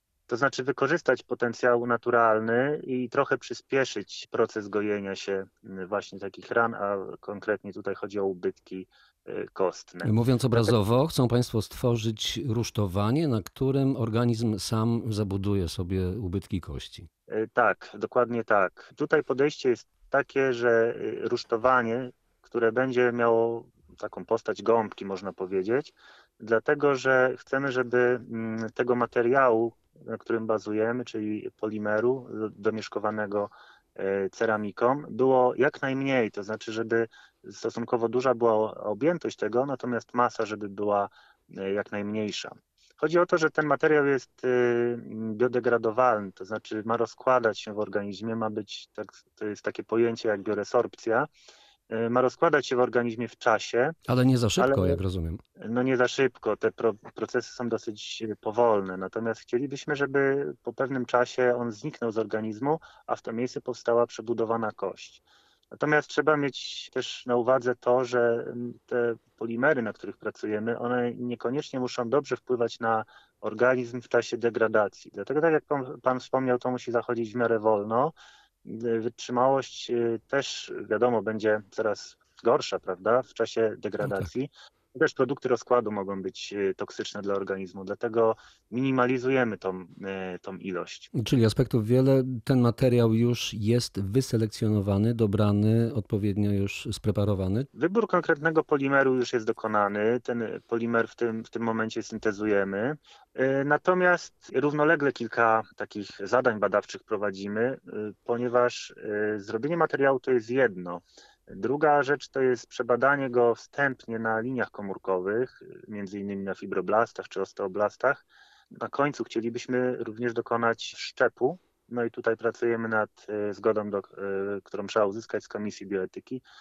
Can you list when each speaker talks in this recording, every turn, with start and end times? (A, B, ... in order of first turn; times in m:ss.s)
0:00.3-0:10.7 A
0:10.0-0:17.1 B
0:17.3-0:51.3 A
0:51.9-0:54.0 A
0:54.1-0:55.4 B
0:54.6-0:55.0 A
0:55.6-1:18.1 A
1:18.6-1:31.1 A
1:31.1-1:37.7 B
1:37.7-2:06.4 A